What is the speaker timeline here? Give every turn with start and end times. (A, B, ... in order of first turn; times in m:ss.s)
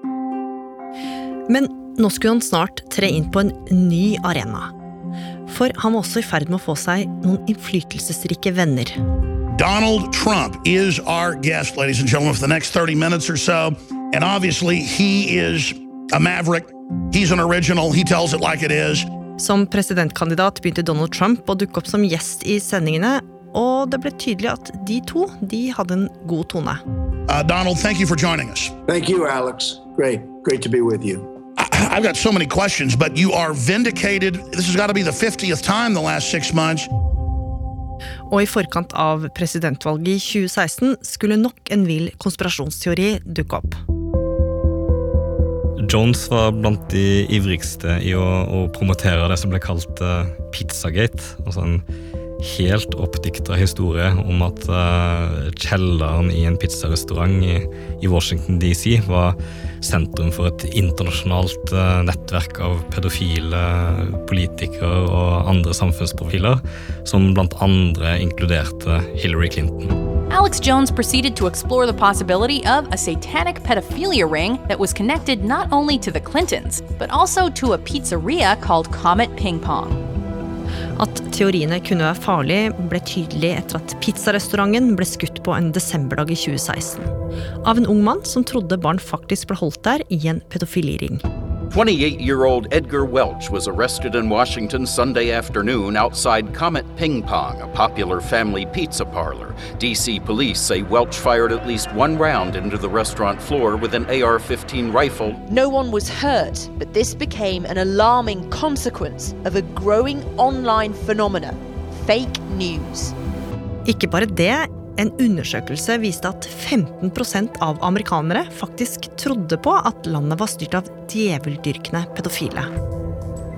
0:01.5-0:04.7 A
0:05.5-0:09.0 A
0:09.5-0:19.1 B
0:19.4-0:26.8 A
0:27.3-0:28.7 B
0:28.9-0:31.3 C
0:31.6-0:36.9 B
0:38.3-0:43.8 A
0:45.8-0:51.8 D
0:52.4-1:10.0 D
1:10.3-1:20.0 E
1:21.0-1:27.1 A
1:27.6-1:31.2 A
1:31.7-1:45.4 F
1:45.5-1:53.1 G
1:53.8-2:02.7 A